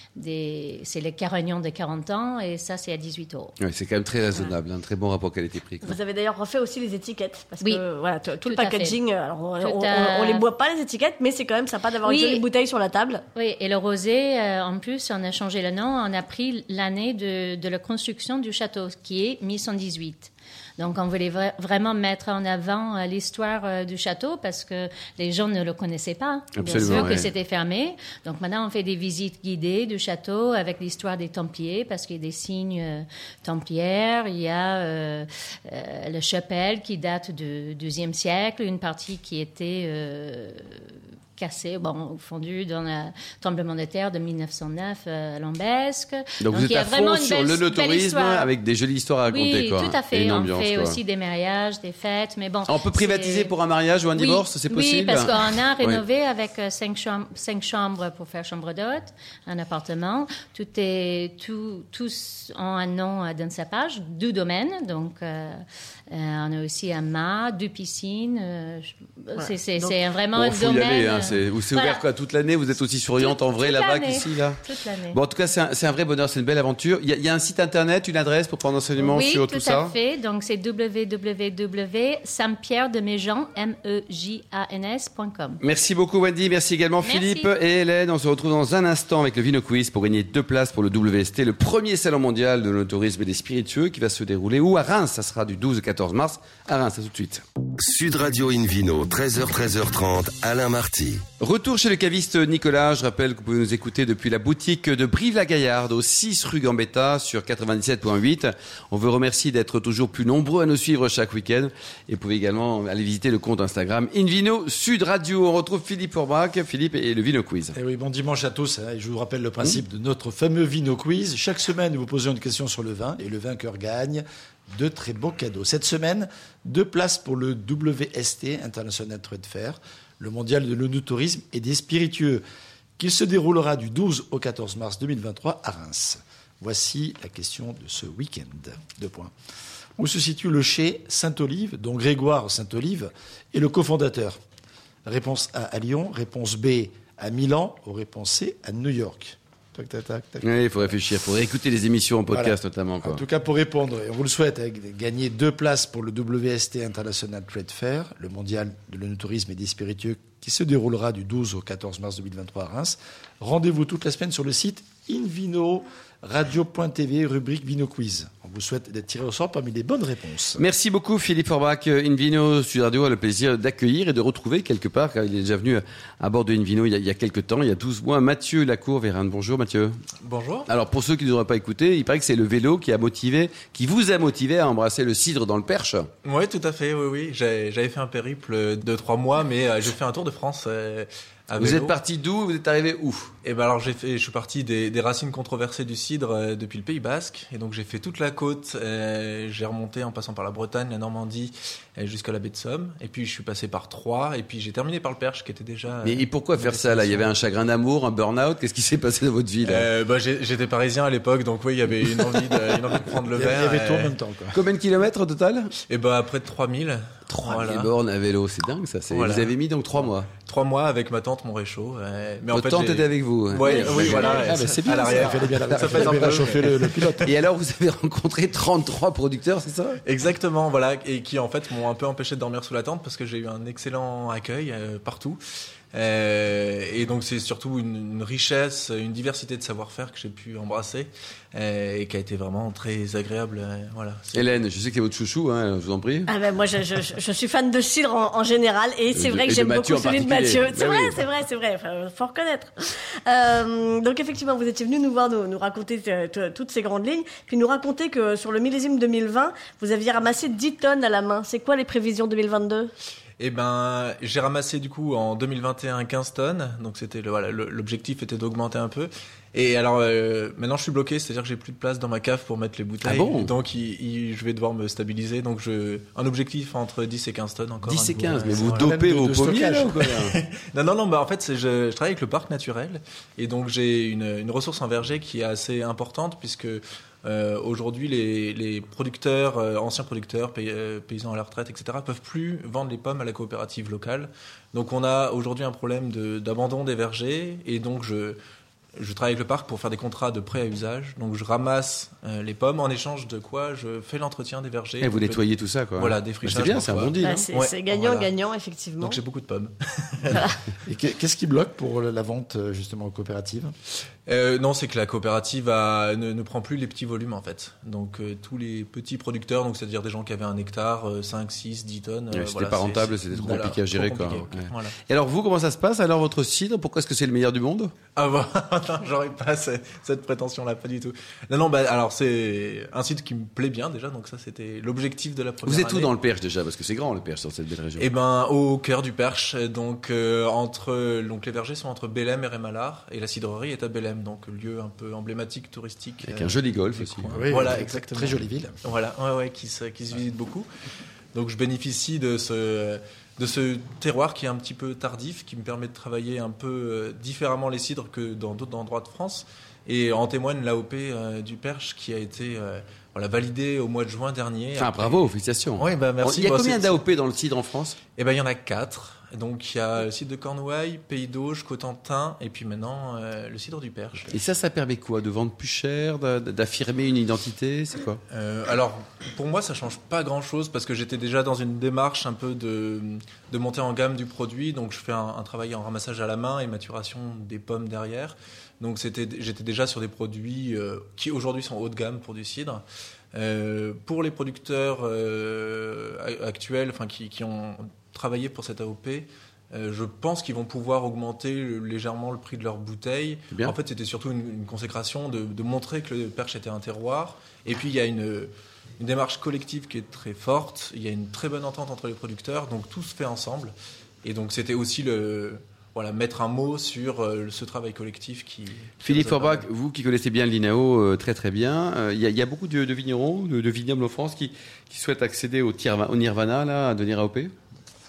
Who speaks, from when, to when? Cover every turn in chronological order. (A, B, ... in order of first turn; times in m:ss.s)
0:00.2-0:03.6 A
0:03.6-0:06.0 B
0:05.8-0:13.2 C
0:08.4-0:09.0 A
0:09.6-0:10.4 A
0:12.0-0:12.4 A
0:13.3-0:48.5 A
0:26.5-0:27.3 B
0:46.4-0:51.0 B
0:49.3-0:53.5 A
0:52.6-0:56.0 B
0:54.1-1:12.0 A
1:09.3-1:10.0 C
1:10.3-1:19.9 B
1:13.2-1:15.2 A
1:19.0-1:25.6 A
1:25.6-1:37.4 B
1:27.0-1:27.5 A
1:37.8-1:41.2 D
1:41.4-1:57.7 B
1:57.7-2:12.4 E
2:13.0-2:19.3 E
2:20.0-2:24.4 E
2:25.0-2:30.5 E
2:30.4-2:33.2 B
2:32.3-2:50.6 E
2:50.6-3:00.0 B
3:00.2-3:00.7 F
3:00.7-3:06.1 B
3:06.2-3:11.9 F
3:11.6-3:13.3 B
3:13.4-3:27.3 F
3:26.0-3:29.8 B
3:29.6-3:34.1 F
3:33.3-3:34.6 E
3:34.5-3:35.7 B
3:35.9-3:37.9 F
3:37.3-3:40.3 B
3:39.1-3:47.3 F
3:42.5-3:50.0 B
3:43.6-3:44.5 C
3:45.0-3:47.3 E
3:50.0-3:55.4 F
3:55.9-4:04.6 F
4:04.3-4:06.3 B
4:06.3-4:22.9 C
4:09.1-4:11.2 B
4:23.4-4:38.9 F
4:33.0-4:33.5 B
4:37.8-4:40.4 B
4:38.4-4:40.1 E
4:40.0-4:58.4 F
4:59.0-5:05.4 F
5:05.0-5:07.4 B
5:06.0-5:08.3 F
5:07.2-5:09.2 C
5:09.0-5:10.5 F
5:10.8-5:13.7 E
5:14.3-5:24.9 F
5:22.3-5:27.9 B
5:23.3-5:23.7 E
5:28.2-5:36.1 F
5:35.6-5:38.1 B
5:38.0-5:50.7 F
5:46.2-5:47.7 B
5:47.3-5:48.8 E
5:51.3-6:07.0 F
6:04.8-6:08.0 B
6:08.2-6:14.4 F
6:14.3-6:18.2 B
6:18.3-6:59.7 F
6:59.0-7:07.5 B